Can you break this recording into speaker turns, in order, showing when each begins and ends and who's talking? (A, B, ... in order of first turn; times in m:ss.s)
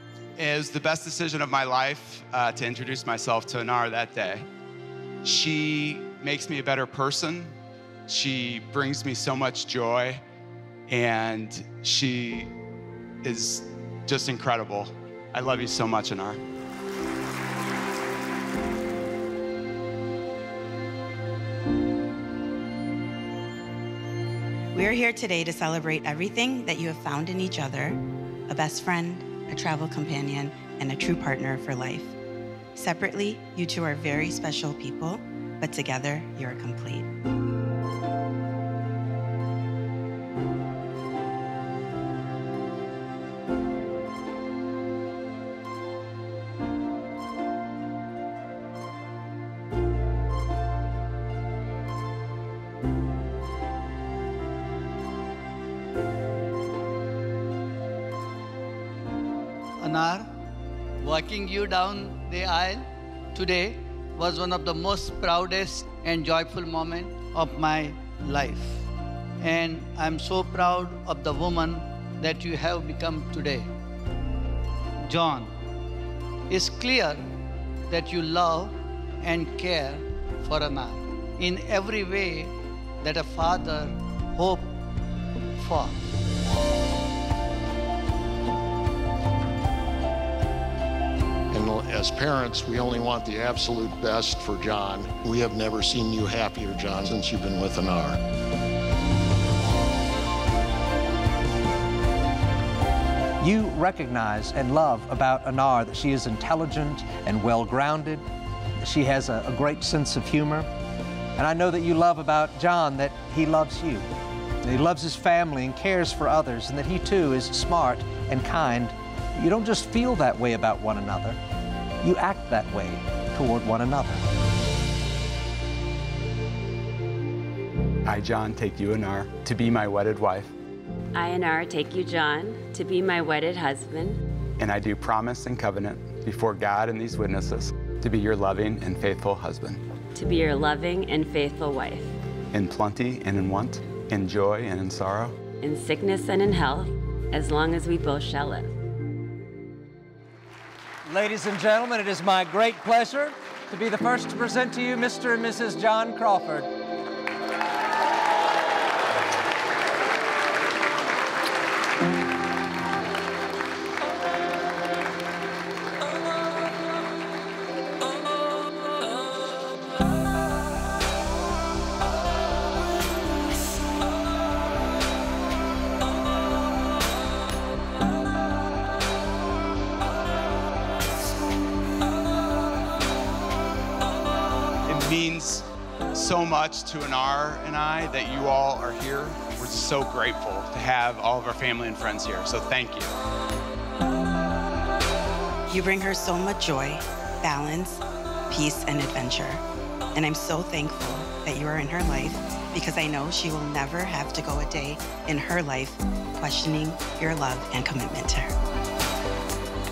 0:00.4-0:04.5 A
0:05.2-0:07.6 A
0:08.1-0:10.2 A
0:10.9-0:12.5 A
0:13.2-0:16.4 A
0:24.7-0:32.2 B
0:32.8-0:37.1 B
0:59.8-1:00.3 C
1:01.0-1:08.9 C
1:09.4-1:13.7 C
1:15.0-1:15.6 C
1:16.5-1:17.3 C
1:17.9-1:24.8 C
1:25.6-1:26.0 C
1:31.5-1:38.2 D
1:43.4-1:48.2 E
1:48.8-1:50.7 E
1:51.4-1:54.1 E
1:54.6-2:01.4 E
2:02.0-2:04.2 E
2:08.0-2:10.5 A
2:11.2-2:14.2 F
2:14.6-2:19.8 A
2:20.2-2:22.1 F
2:22.5-2:25.4 A
2:25.6-2:28.7 F
2:31.1-2:36.7 E
3:04.9-3:13.1 A
3:15.7-3:19.6 B
3:20.1-3:28.5 B